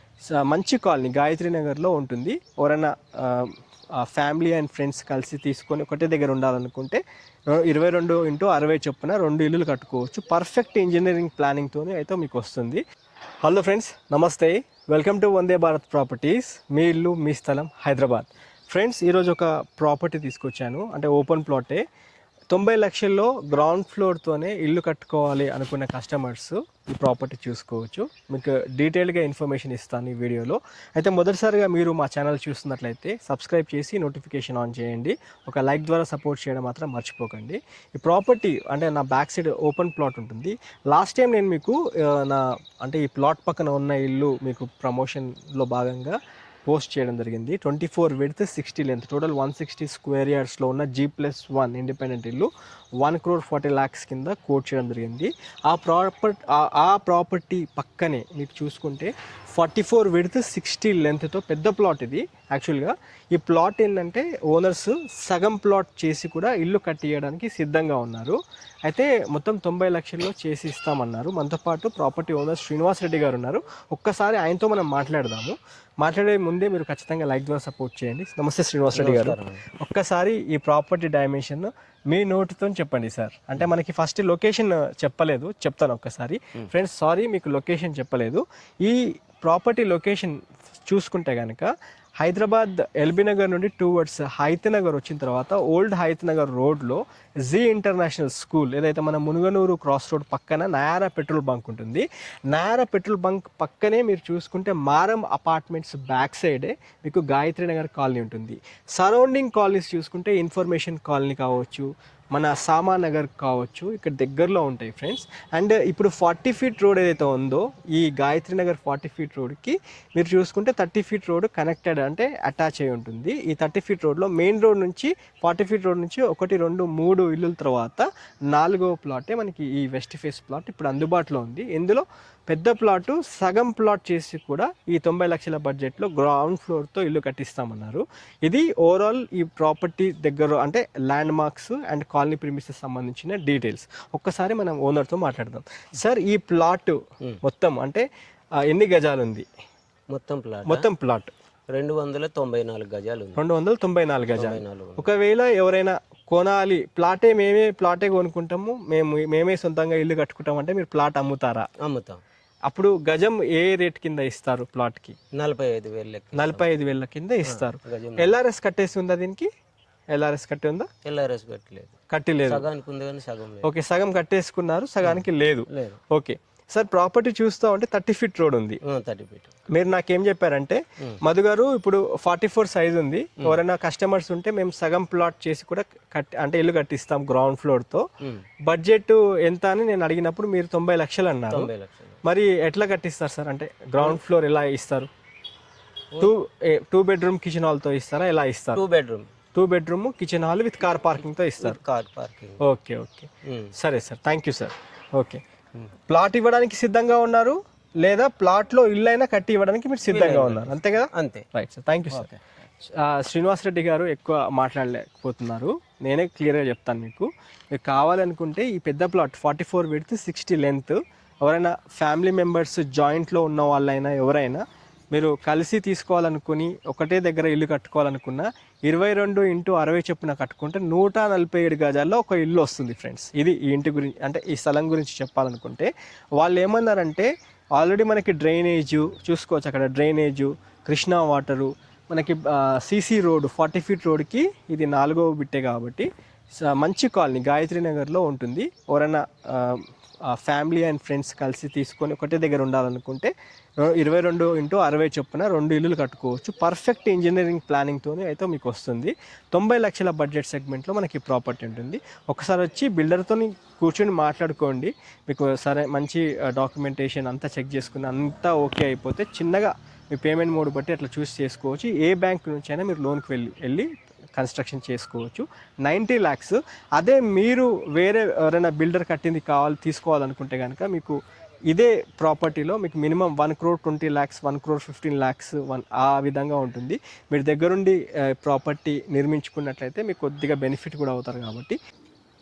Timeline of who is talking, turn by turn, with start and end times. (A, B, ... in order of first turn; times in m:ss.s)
0:00.3-0:07.0 A
0:07.5-0:12.8 A
0:13.4-0:21.8 A
0:22.5-0:46.2 A
0:46.7-0:52.5 A
0:53.0-2:28.0 A
1:18.9-1:19.6 B
2:28.6-2:29.4 A
2:30.1-2:30.9 B
2:30.7-2:31.3 A
2:31.7-2:33.4 B
2:33.4-2:41.7 A
2:34.3-2:35.1 B
2:41.8-2:42.2 B
2:42.7-2:45.2 A
2:45.3-2:46.7 B
2:46.3-2:49.5 A
2:47.4-2:48.3 B
2:50.1-2:50.9 A
2:51.0-2:53.7 B
2:52.1-2:52.6 A
2:53.6-2:58.8 A
2:55.0-2:56.0 B
2:58.8-2:59.5 B
2:59.7-3:08.0 A
3:08.7-3:11.7 A
3:11.5-3:12.2 B
3:12.2-3:15.1 A
3:16.2-3:18.8 A
3:18.7-3:19.3 B
3:19.5-3:21.8 A
3:21.6-3:22.6 B
3:22.6-3:25.4 A
3:23.4-3:23.7 B
3:26.1-3:32.3 A
3:30.1-3:31.4 B
3:32.1-3:32.4 B
3:32.8-4:06.1 A
4:06.6-4:13.3 A
4:13.8-4:41.2 A
4:41.7-4:51.8 A